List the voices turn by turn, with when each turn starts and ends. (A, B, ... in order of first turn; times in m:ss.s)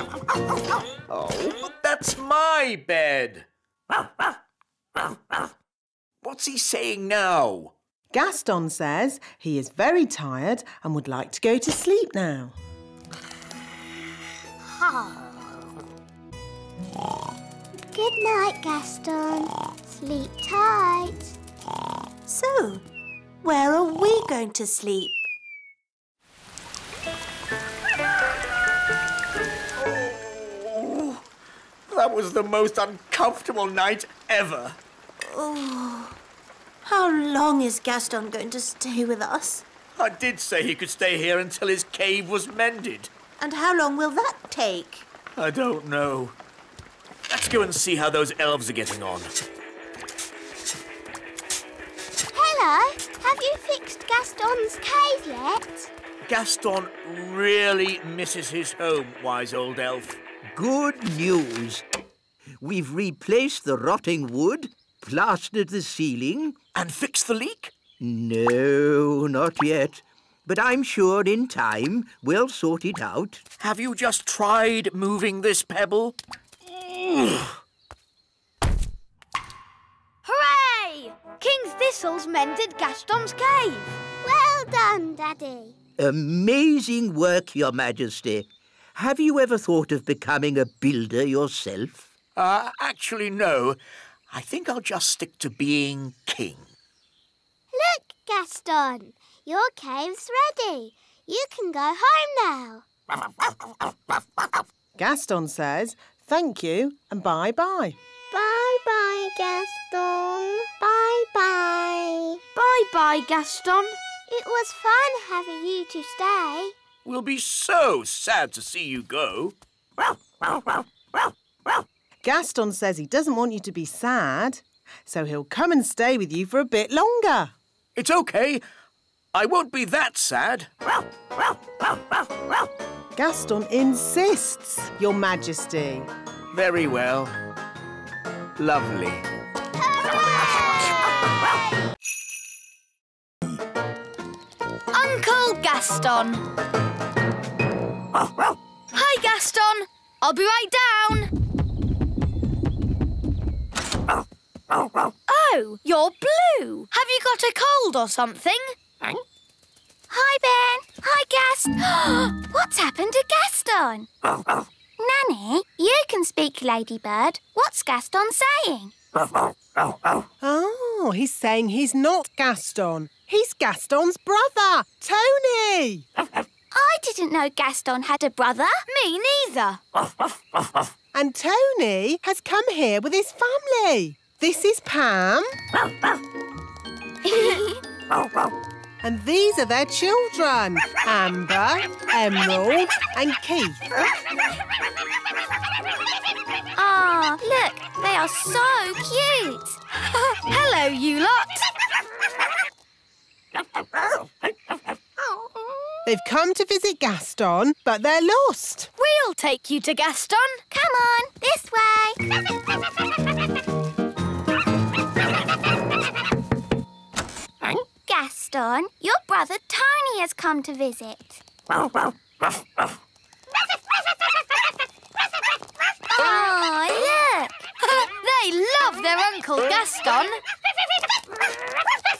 0:01.1-0:03.5 A
0:06.2-0:07.7 A
0:08.1-0:12.5 B
0:17.8-0:21.3 C
0:22.3-0:22.8 D
0:23.4-0:25.2 D
0:29.8-0:31.2 A
0:31.9-0:34.8 A
0:35.2-0:36.1 D
0:36.8-0:39.6 D
0:40.0-0:43.1 A
0:43.4-0:45.0 D
0:45.4-0:46.4 A
0:47.3-0:49.3 A
0:52.3-0:55.9 C
0:56.2-1:00.2 A
1:00.5-1:01.8 E
1:02.6-1:06.6 E
1:06.7-1:07.7 A
1:08.0-1:13.4 E
1:13.6-1:16.2 A
1:16.9-1:17.4 A
1:20.2-1:24.0 F
1:24.2-1:25.8 C
1:26.0-1:32.0 E
1:32.4-1:33.8 A
1:34.3-1:36.7 A
1:37.7-1:42.8 C
1:45.0-1:48.0 B
1:48.3-1:52.4 C
1:52.5-1:54.0 F
1:54.3-1:56.7 C
1:57.0-1:59.5 A
2:02.2-2:07.5 B
2:08.0-2:08.6 A
2:09.3-2:10.7 A
2:13.2-2:16.1 B
2:16.5-2:17.4 A
2:18.6-2:19.2 A
2:19.9-2:21.4 C
2:24.9-2:26.4 F
2:28.9-2:31.3 F
2:35.3-2:38.8 F
2:40.1-2:44.1 G
2:45.0-2:48.9 G
2:50.4-2:56.0 B
2:56.7-2:58.8 G
2:58.9-2:59.8 F
3:01.1-3:05.5 B
3:07.3-3:07.6 G
3:09.0-3:13.8 B
3:16.8-3:19.8 G
3:20.1-3:21.7 F
3:26.0-3:28.9 B
3:29.0-3:30.6 F
3:30.7-3:32.2 G
3:38.0-3:41.4 G
3:46.1-3:47.6 G
3:47.8-3:50.4 F